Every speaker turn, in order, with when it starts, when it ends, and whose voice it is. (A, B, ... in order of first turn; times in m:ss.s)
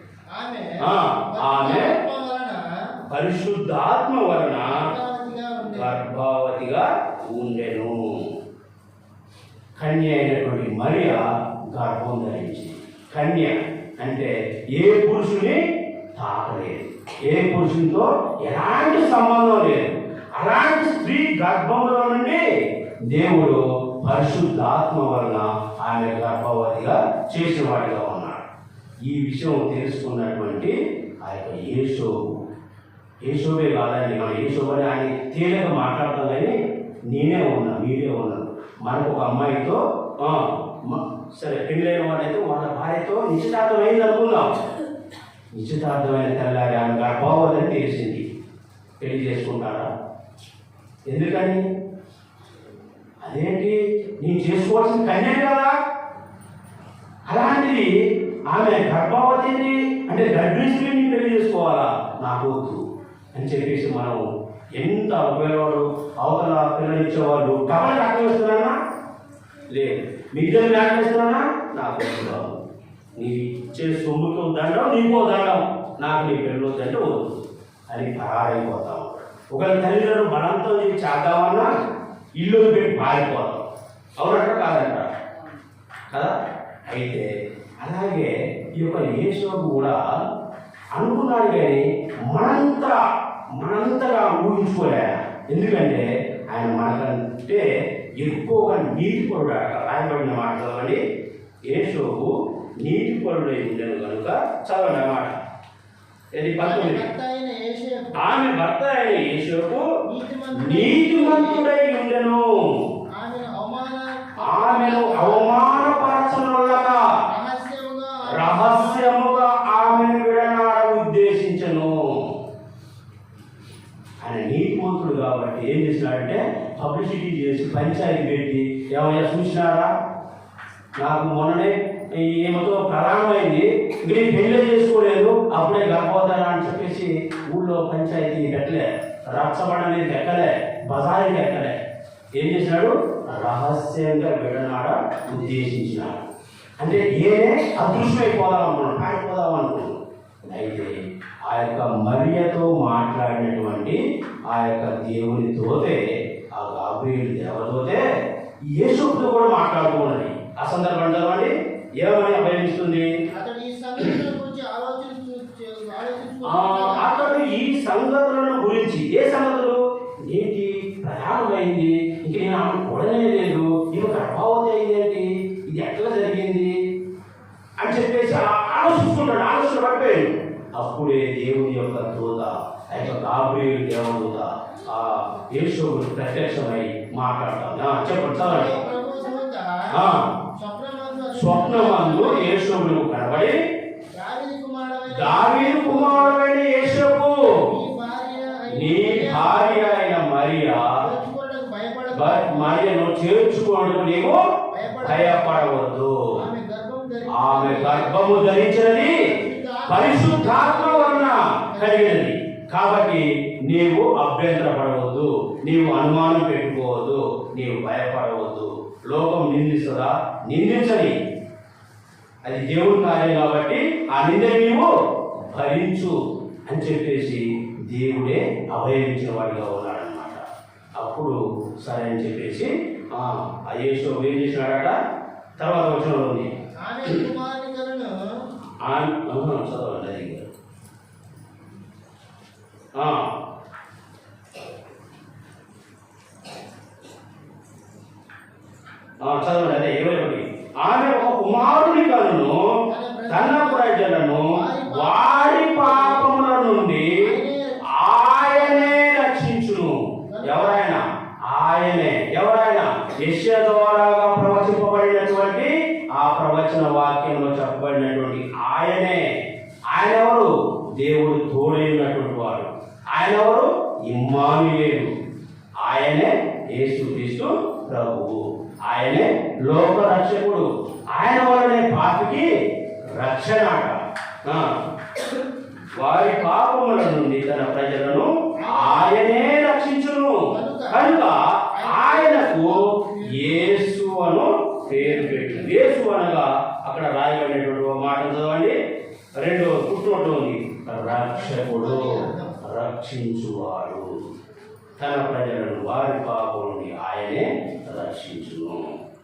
0:00.3-0:02.6 A
0:00.8-0:01.9 B
0:03.1-0:04.8 B
0:04.6-0:05.9 A
0:05.7-0:08.0 B
0:09.8-0:11.2 B
0:11.7-0:15.6 B
0:16.2-0:22.4 B
0:23.1-0:28.4 B
0:29.1-0:32.4 B
0:33.2-0:36.5 B
0:37.1-0:44.6 B
0:45.5-0:48.2 B
0:49.0-0:49.9 B
0:51.1-0:51.6 B
0:53.2-0:55.8 B
0:57.3-0:57.9 B
0:58.5-1:02.8 B
1:03.3-1:04.2 B
1:04.8-1:08.8 B
1:09.7-1:12.6 B
1:13.1-1:21.7 B
1:22.4-1:23.6 B
1:24.2-1:25.1 B
1:26.9-1:27.3 B
1:27.8-1:30.0 B
1:30.9-1:33.0 B
1:33.6-1:37.6 B
1:38.2-1:41.0 B
1:41.7-1:45.3 B
1:46.4-1:47.0 B
1:46.6-1:48.2 A
1:48.2-1:49.8 B
1:50.1-1:51.6 A
1:50.6-1:52.5 B
1:53.2-1:56.1 A
1:54.4-1:57.1 B
1:57.2-1:59.8 A
1:58.3-2:01.9 B
2:04.2-2:09.9 B
2:11.0-2:21.7 B
2:22.4-2:26.2 B
2:26.8-2:36.0 B
2:36.5-2:38.0 B
2:38.7-2:43.1 B
2:43.3-2:47.4 A
2:46.5-2:56.7 B
2:57.8-3:08.8 B
3:08.4-3:09.9 A
3:09.9-3:10.2 B
3:10.6-3:12.6 A
3:11.3-3:13.6 B
3:14.2-3:16.4 A
3:15.1-3:17.6 B
3:17.6-3:19.9 A
3:18.7-3:21.0 B
3:21.0-3:22.8 A
3:22.1-3:24.4 B
3:24.7-3:25.7 A
3:25.0-3:26.3 B
3:26.4-3:32.3 A
3:27.3-3:29.2 B
3:29.9-3:41.1 B
3:42.4-3:46.1 B
3:46.7-3:50.4 B
3:51.0-3:54.9 B
3:55.6-3:56.5 B
3:56.8-3:58.2 A
3:58.8-4:00.5 B
4:03.0-4:03.3 B
4:09.2-4:12.7 B
4:12.9-4:16.3 A
4:13.3-4:17.3 B
4:17.2-4:19.0 A
4:17.9-4:29.2 B
4:20.3-4:20.9 A
4:29.9-4:35.1 B
4:35.8-4:42.5 B
4:43.1-4:44.7 B
4:46.0-4:58.8 B
4:48.6-4:49.2 A
4:50.5-4:53.7 A
4:54.9-4:55.5 A
4:59.4-5:04.1 B
5:01.0-5:02.6 A
5:05.0-5:08.9 B